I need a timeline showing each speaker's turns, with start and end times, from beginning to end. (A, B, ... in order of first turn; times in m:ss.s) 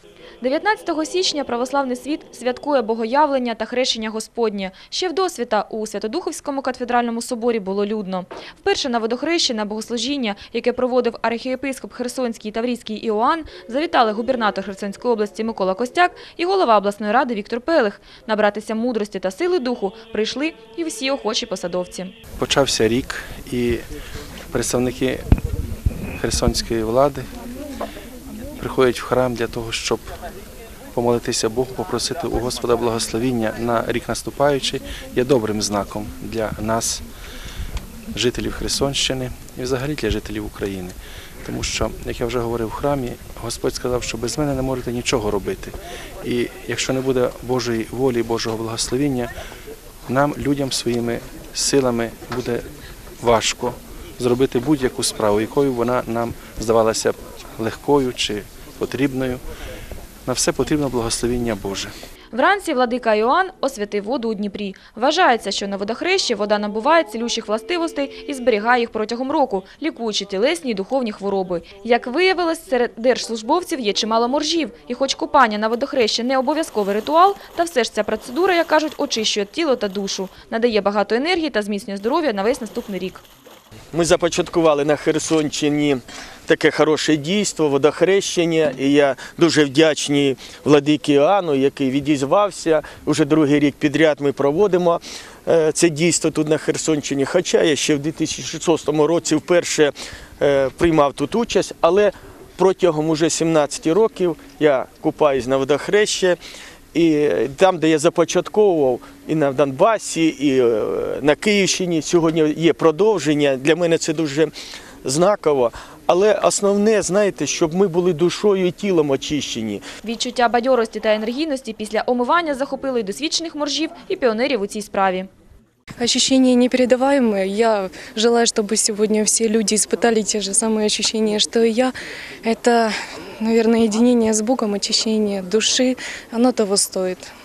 0:00.4-0:22.1 A
0:22.4-0:23.8 B
0:24.5-0:25.2 B
0:26.2-0:27.3 B
0:28.6-0:30.0 B
0:30.9-0:37.0 B
0:38.1-0:49.3 B
0:50.1-0:52.6 B
0:53.2-0:59.4 B
1:00.2-1:01.9 B
1:02.3-1:23.2 A
1:23.9-1:46.4 C
1:46.9-1:54.5 C
1:55.0-1:59.8 C
2:00.0-2:05.3 A
2:06.0-2:11.9 D
2:12.4-2:17.3 D